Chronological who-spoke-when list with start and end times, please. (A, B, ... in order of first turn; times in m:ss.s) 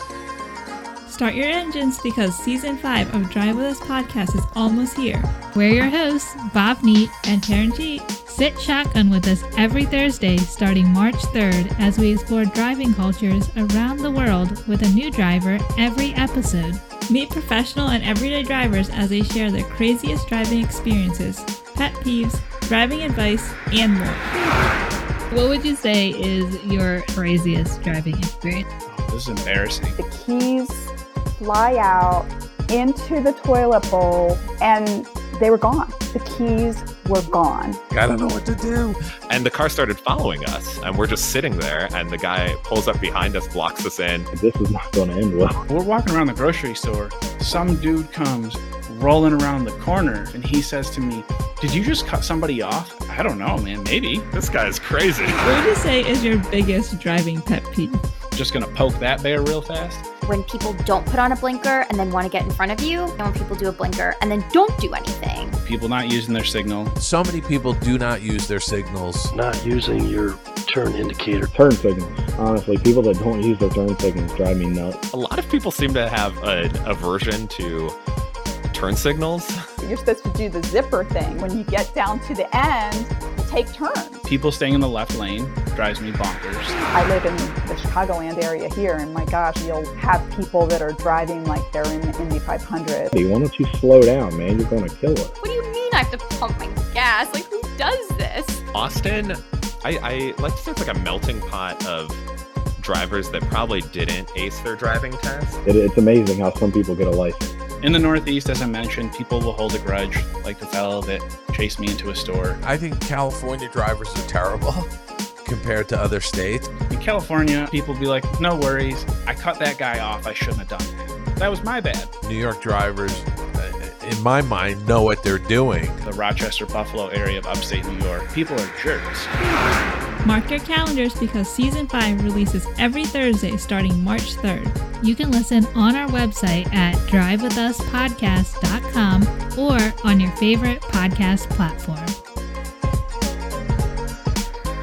0:01.1-0:05.3 A
0:05.5-0:07.2 B
0:07.2-0:08.1 A
0:08.2-0:16.9 B
0:17.1-0:24.3 A
0:25.3-0:28.6 B
0:28.9-0:30.0 C
0:30.0-0:37.8 D
0:37.9-0:39.0 E
0:39.3-0:44.3 F
0:44.3-0:45.6 G
0:45.7-0:54.3 C
0:54.3-0:55.4 F
0:55.4-0:58.0 A
0:58.4-1:00.0 C
1:00.2-1:05.6 H
1:05.6-1:07.0 C
1:07.0-1:09.3 E
1:09.3-1:11.5 I
1:11.5-1:15.0 G
1:15.1-1:18.0 F
1:18.7-1:19.6 F
1:19.8-1:24.2 D
1:24.2-1:26.8 C
1:26.9-1:33.1 D
1:33.1-1:35.4 G
1:37.0-1:38.5 H
1:38.7-1:42.2 F
1:42.8-1:45.6 F
1:45.6-1:47.5 G
1:47.8-1:52.6 C
1:52.6-1:54.9 E
1:55.4-1:56.7 E
1:56.8-2:02.1 C
2:02.2-2:06.0 E
2:06.0-2:09.3 C
2:10.2-2:14.8 A
2:15.0-2:22.1 B